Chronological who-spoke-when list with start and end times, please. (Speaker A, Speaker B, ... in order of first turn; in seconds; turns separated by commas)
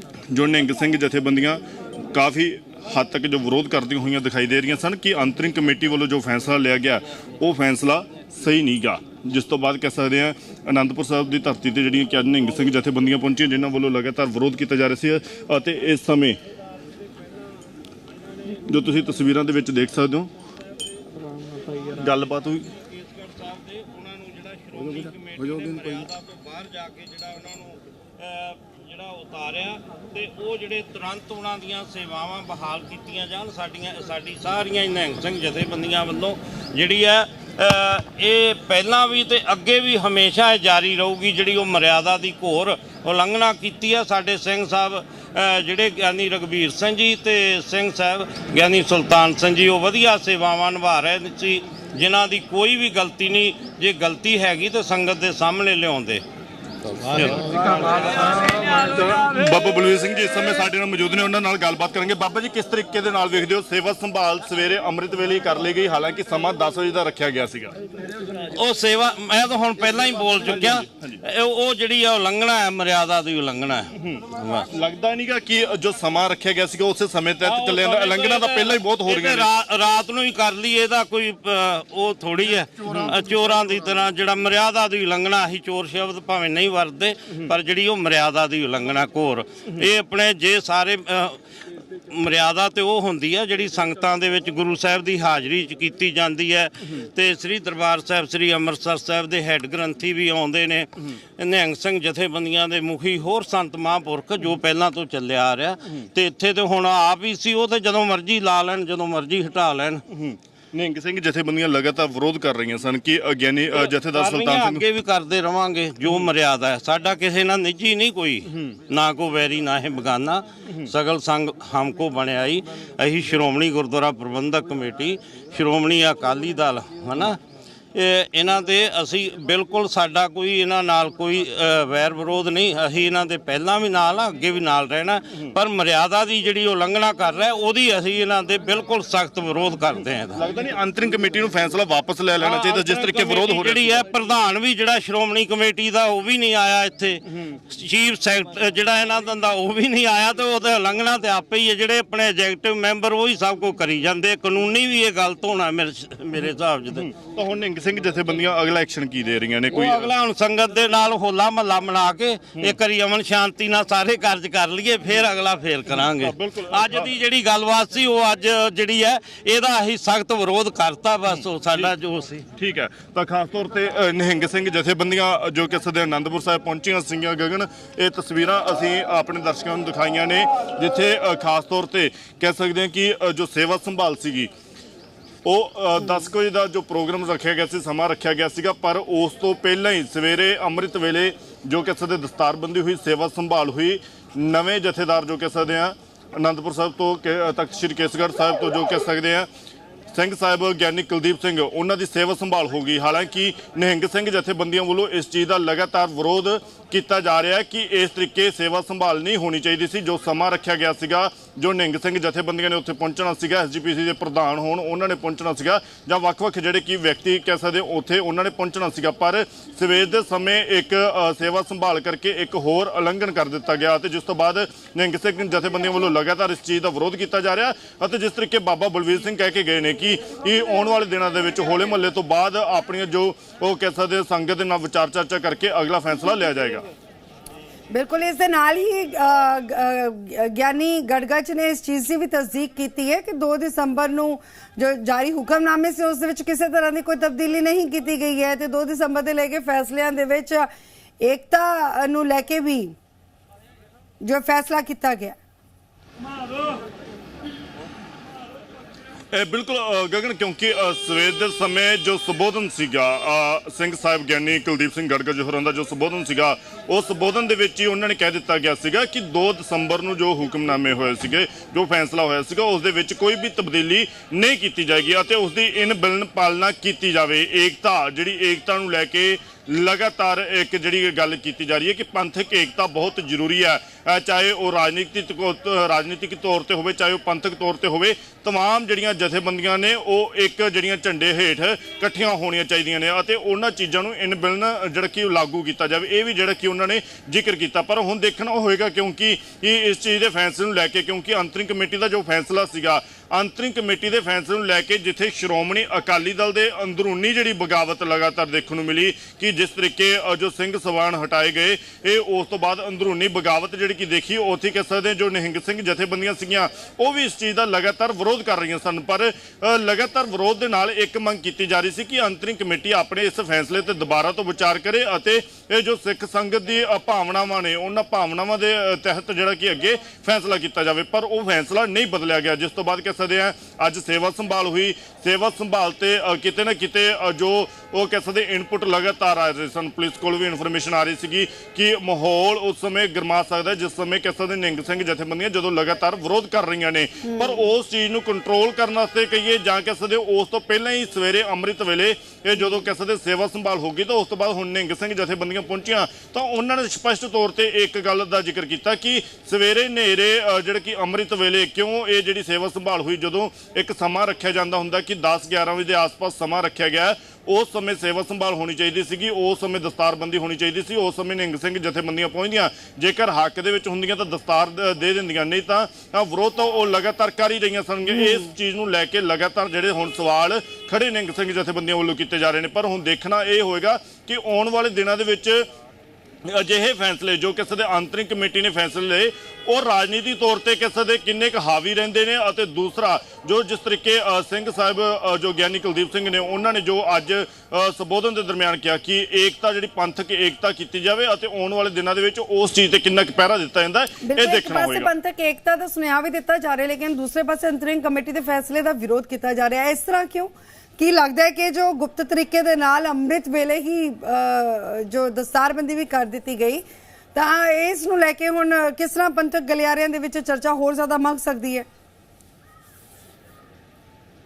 Speaker A: 0.3-16.4, Speaker A: 18.6-20.3, Speaker A: 22.0-22.7, Speaker B: 22.8-56.2, Speaker B: 57.0-58.9, Speaker A: 59.0-67.7, Speaker B: 68.5-74.7, Speaker A: 70.5-71.2, Speaker A: 74.0-79.5, Speaker B: 77.4-91.4, Speaker B: 92.1-110.0, Speaker A: 110.1-114.8, Speaker B: 113.7-127.4, Speaker B: 127.9-140.4, Speaker A: 140.3-144.0, Speaker B: 142.4-157.1, Speaker A: 156.9-160.1, Speaker B: 159.7-172.4, Speaker A: 166.2-167.1, Speaker A: 172.6-184.5, Speaker A: 185.4-199.5, Speaker A: 200.1-236.8, Speaker C: 237.9-250.7, Speaker C: 251.2-252.9, Speaker C: 254.2-255.3, Speaker A: 259.3-385.7, Speaker C: 378.1-378.5, Speaker A: 386.4-405.1, Speaker C: 404.2-421.9